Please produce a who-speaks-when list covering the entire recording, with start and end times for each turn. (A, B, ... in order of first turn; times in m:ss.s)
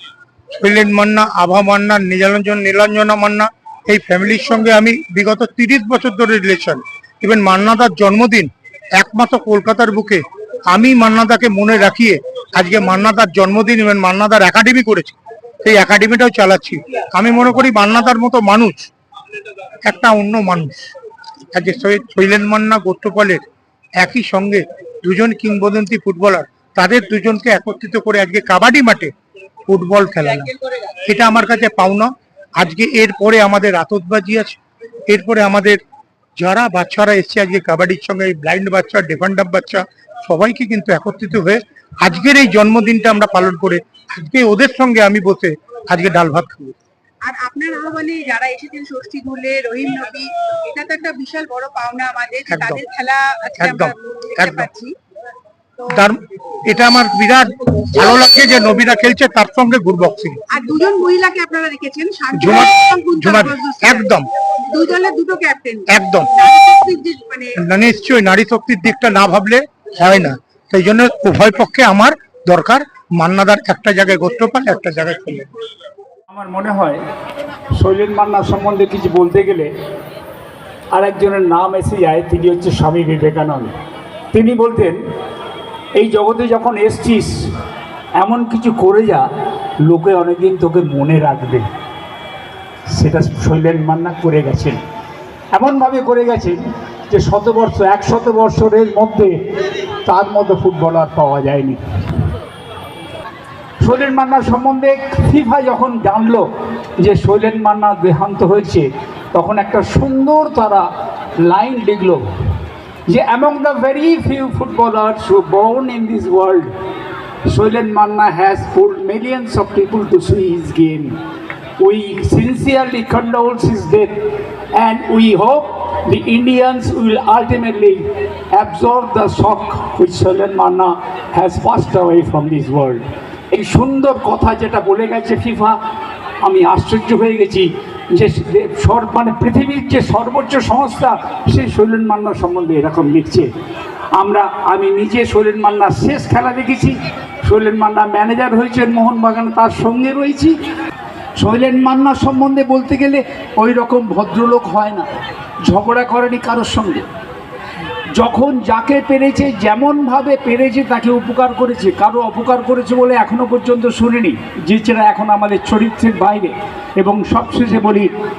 0:00.6-0:18.9 A
0:19.8-0:20.8 A
0:21.5-0:23.4 A
0:24.0-0:29.1 A
0:29.7-0:30.5 A
0:31.0-0:34.6 A
0:35.1-0:35.8 A
0:36.4-0:46.7 A
0:47.2-0:54.9 B
0:52.5-0:52.8 A
0:53.6-0:54.7 A
0:55.9-1:00.4 A
1:00.5-1:04.1 B
1:02.3-1:04.3 A
1:04.7-1:07.5 B
1:05.9-1:06.4 A
1:07.6-1:15.5 A
1:16.3-1:17.0 C
1:17.7-1:19.7 C
1:20.9-1:23.7 C
1:24.3-1:25.0 C
1:26.0-1:27.3 C
1:28.2-1:29.2 C
1:29.8-1:31.7 C
1:32.9-1:34.8 C
1:35.5-1:36.6 C
1:37.1-1:39.3 C
1:40.0-1:41.8 C
1:43.8-1:46.4 C
1:47.0-1:50.9 C
1:51.4-1:52.2 C
1:53.1-1:56.7 C
1:57.5-2:01.1 C
2:01.8-2:04.1 C
2:04.7-2:15.8 C
2:16.4-2:23.5 C
2:24.2-2:26.9 C
2:27.4-2:30.5 C
2:31.4-2:35.0 C
2:35.6-2:37.0 C
2:38.1-2:48.1 C